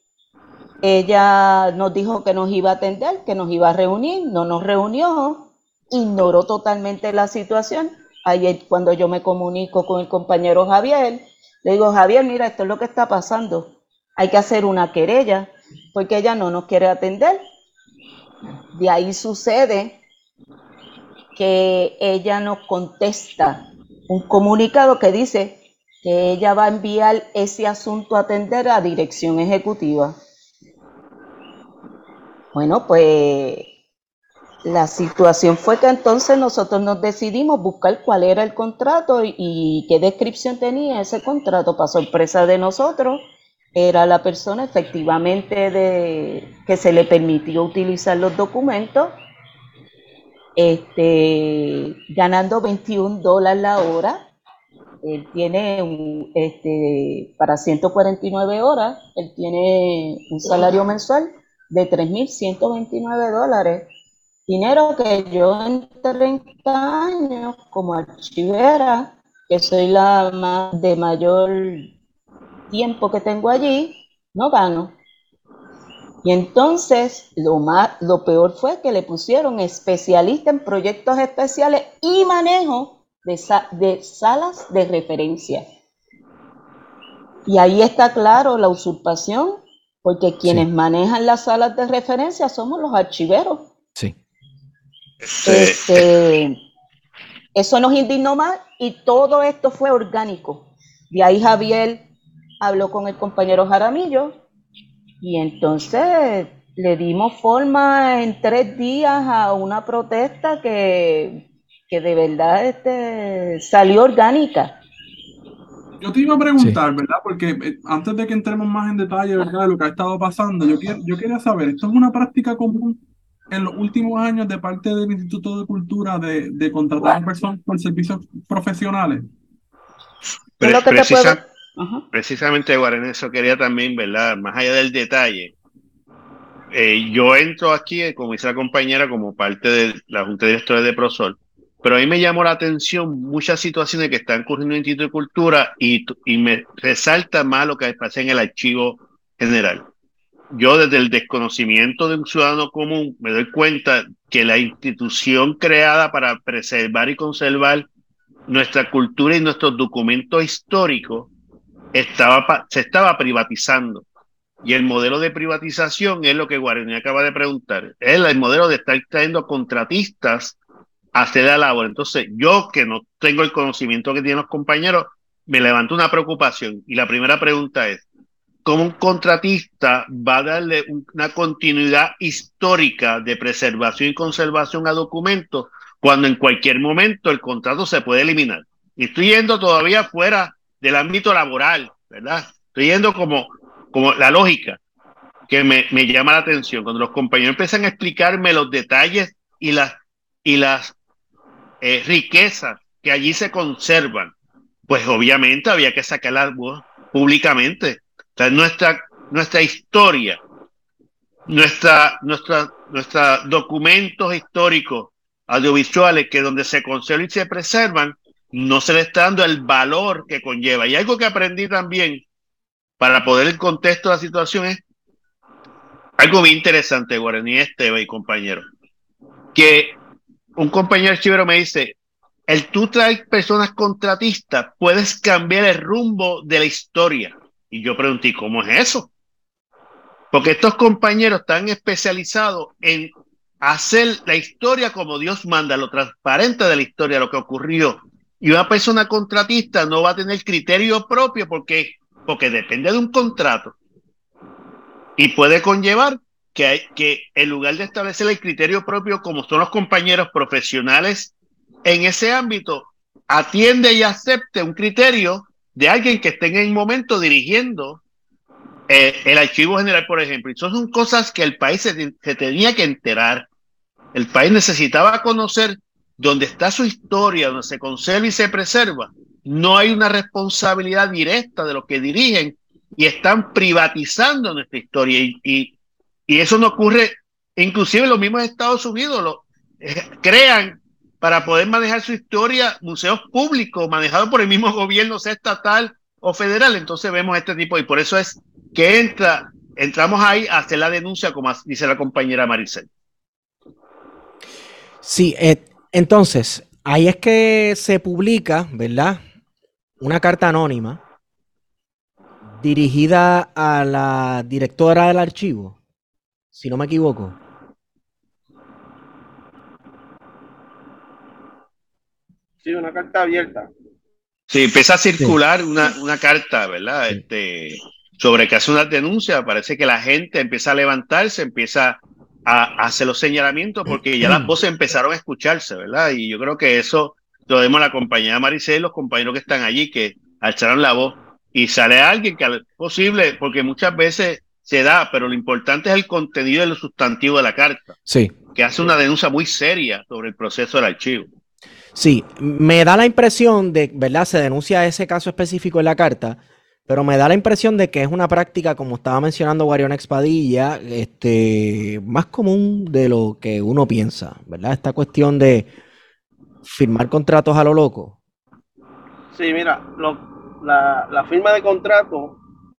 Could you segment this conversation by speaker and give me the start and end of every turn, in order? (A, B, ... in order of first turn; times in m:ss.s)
0:00.8-0:17.4 A
0:18.7-0:20.0 A
0:21.4-0:30.1 A
0:32.5-0:33.7 A
0:34.6-0:43.2 A
0:43.8-0:49.1 A
0:50.6-0:54.2 A
0:55.0-1:03.9 A
1:04.5-1:11.9 A
1:12.7-1:14.9 A
1:16.2-1:25.6 A
1:27.5-1:33.7 A
1:35.3-1:36.0 B
1:35.4-1:36.6 A
1:37.5-1:42.0 A
1:42.6-1:44.3 A
1:45.2-1:54.7 A
1:56.0-2:03.0 C
2:03.5-2:09.2 C
2:10.6-2:11.4 B
2:10.6-2:12.0 A
2:12.1-2:15.5 B
2:16.7-2:29.8 B
2:30.5-2:37.9 B
2:38.5-2:41.3 B
2:41.9-2:44.0 B
2:44.6-2:50.6 B
2:51.1-2:58.0 B
2:58.6-3:14.8 B
3:15.5-3:19.9 B
3:20.4-3:20.9 B
3:21.8-3:24.3 B
3:24.9-3:30.4 B
3:31.5-3:42.2 B
3:43.0-3:44.8 B
3:46.2-3:48.6 B
3:49.5-3:49.9 B
3:50.6-3:51.9 B
3:52.5-3:59.1 B
4:00.3-4:13.7 B
4:15.2-4:21.3 B
4:21.8-4:28.0 B
4:28.9-4:33.4 B
4:34.1-4:45.7 B
4:46.3-5:02.9 B
5:05.0-5:09.2 D
5:10.0-5:11.0 D
5:12.6-5:15.8 D
5:16.5-5:17.4 D
5:22.6-5:23.7 E
5:24.5-5:47.9 B
5:34.2-5:34.5 D
5:48.0-5:48.3 D
5:48.5-5:51.3 B
5:51.9-6:05.7 D
6:06.6-6:08.2 D
6:09.3-6:12.4 E